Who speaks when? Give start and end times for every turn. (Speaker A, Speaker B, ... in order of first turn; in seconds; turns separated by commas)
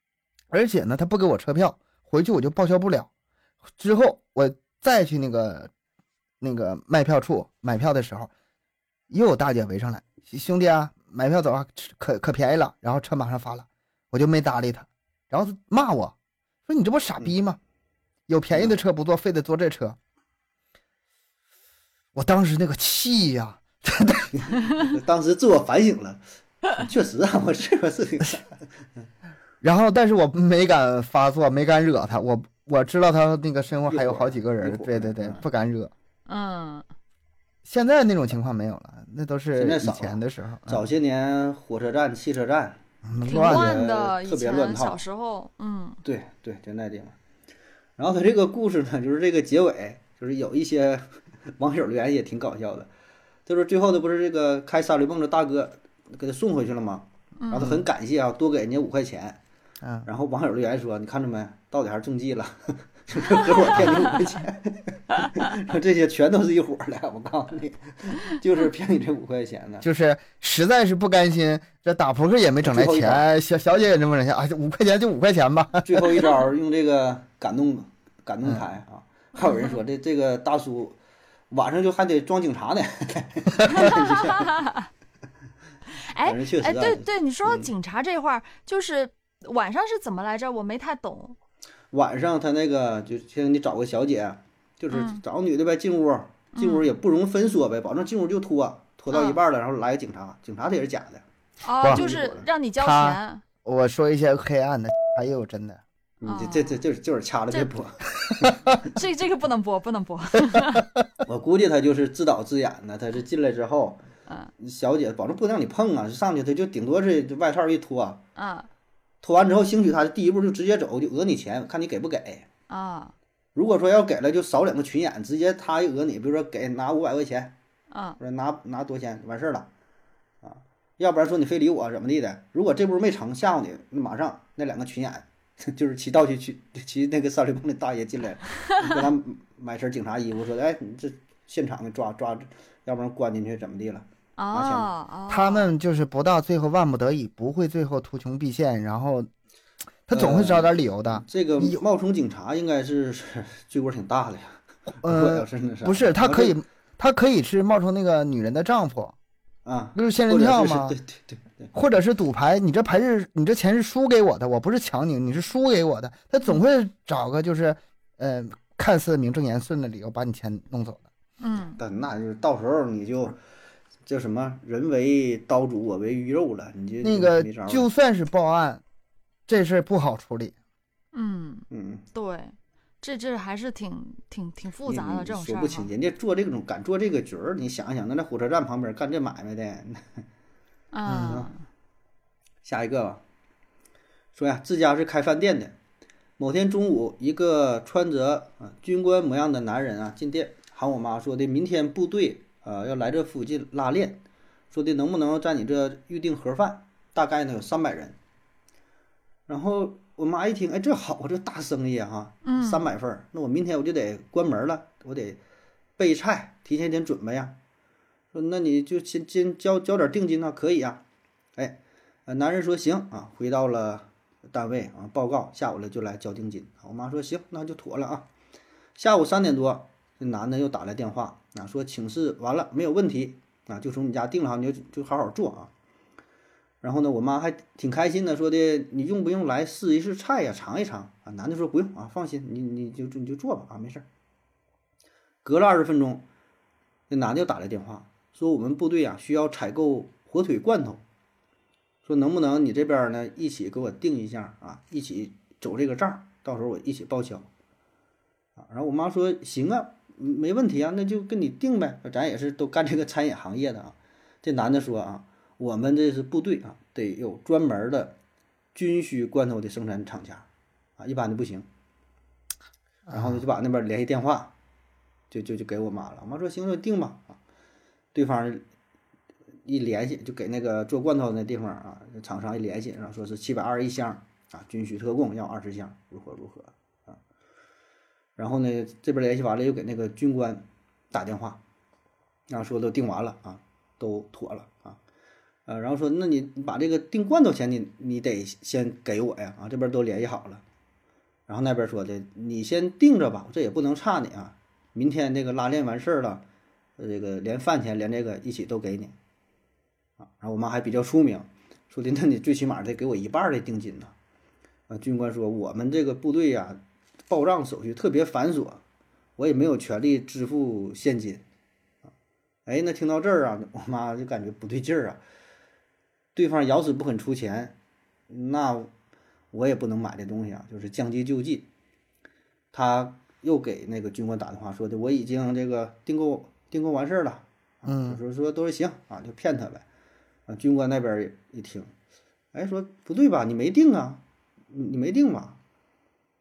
Speaker A: 0.5-3.1, Speaker A: 3.8-5.7, Speaker A: 6.4-8.3, Speaker A: 9.1-16.1, Speaker A: 16.7-17.6, Speaker A: 18.3-20.0, Speaker A: 22.1-24.5, Speaker B: 24.3-28.6, Speaker A: 29.6-35.9, Speaker B: 33.9-35.4, Speaker C: 36.3-36.8, Speaker A: 37.6-40.8, Speaker B: 39.5-45.0, Speaker A: 43.0-43.8, Speaker C: 43.2-46.0, Speaker B: 46.0-47.1, Speaker B: 48.0-52.9, Speaker B: 53.5-59.4, Speaker C: 57.4-57.8, Speaker A: 59.8-60.1, Speaker B: 60.0-69.8, Speaker A: 69.8-76.3, Speaker B: 72.6-73.3, Speaker B: 75.8-81.0, Speaker C: 79.4-79.8, Speaker B: 81.5-84.6, Speaker C: 83.7-84.9, Speaker C: 86.0-91.3, Speaker B: 86.2-87.7, Speaker B: 91.9-101.2, Speaker C: 94.9-95.2, Speaker C: 96.5-96.9, Speaker C: 99.1-99.4, Speaker C: 101.6-103.4, Speaker B: 101.9-102.5, Speaker A: 102.8-105.8, Speaker B: 106.2-108.6, Speaker C: 106.2-106.8, Speaker C: 108.8-110.8, Speaker A: 110.5-110.8, Speaker B: 111.2-114.0, Speaker B: 114.6-118.2, Speaker C: 118.3-118.7, Speaker B: 119.2-122.5, Speaker C: 122.7-123.1, Speaker B: 123.5-127.5, Speaker C: 127.9-128.2, Speaker B: 128.2-129.7, Speaker B: 130.4-144.9, Speaker C: 144.4-145.7, Speaker A: 145.3-149.3, Speaker A: 150.1-151.8, Speaker B: 150.1-156.6, Speaker A: 155.0-159.1, Speaker B: 159.6-161.7, Speaker A: 159.9-161.0, Speaker A: 161.7-171.0, Speaker C: 171.4-171.8, Speaker B: 171.8-173.4, Speaker B: 174.1-177.8, Speaker A: 177.0-178.8, Speaker A: 179.5-180.5, Speaker C: 181.1-185.9, Speaker B: 181.7-182.0, Speaker B: 184.9-190.2, Speaker C: 190.9-191.6, Speaker A: 191.1-191.4, Speaker B: 191.2-191.5, Speaker B: 192.6-193.2, Speaker B: 194.3-195.8, Speaker B: 196.4-204.2, Speaker B: 204.7-208.2, Speaker B: 209.5-215.4, Speaker C: 212.4-212.8, Speaker B: 216.0-217.5, Speaker B: 218.3-221.0, Speaker B: 221.6-228.3, Speaker B: 228.9-235.7, Speaker B: 236.8-244.1, Speaker B: 245.4-246.2, Speaker B: 247.1-251.0, Speaker B: 252.0-257.5, Speaker B: 258.6-268.1, Speaker B: 268.7-270.4, Speaker B: 271.0-271.7, Speaker A: 273.1-273.4, Speaker B: 273.1-274.5, Speaker B: 275.3-277.4, Speaker B: 278.1-278.6, Speaker B: 279.6-287.2, Speaker B: 288.4-291.6, Speaker B: 292.5-295.0, Speaker B: 295.6-300.6, Speaker B: 301.5-306.4, Speaker B: 307.0-309.1, Speaker B: 310.2-314.1, Speaker B: 314.9-318.8, Speaker B: 319.4-321.4, Speaker B: 322.6-325.2, Speaker B: 326.3-327.7, Speaker B: 328.3-328.9, Speaker B: 329.5-331.7, Speaker B: 332.7-339.8, Speaker A: 337.8-338.2, Speaker B: 340.5-341.9, Speaker B: 342.5-345.6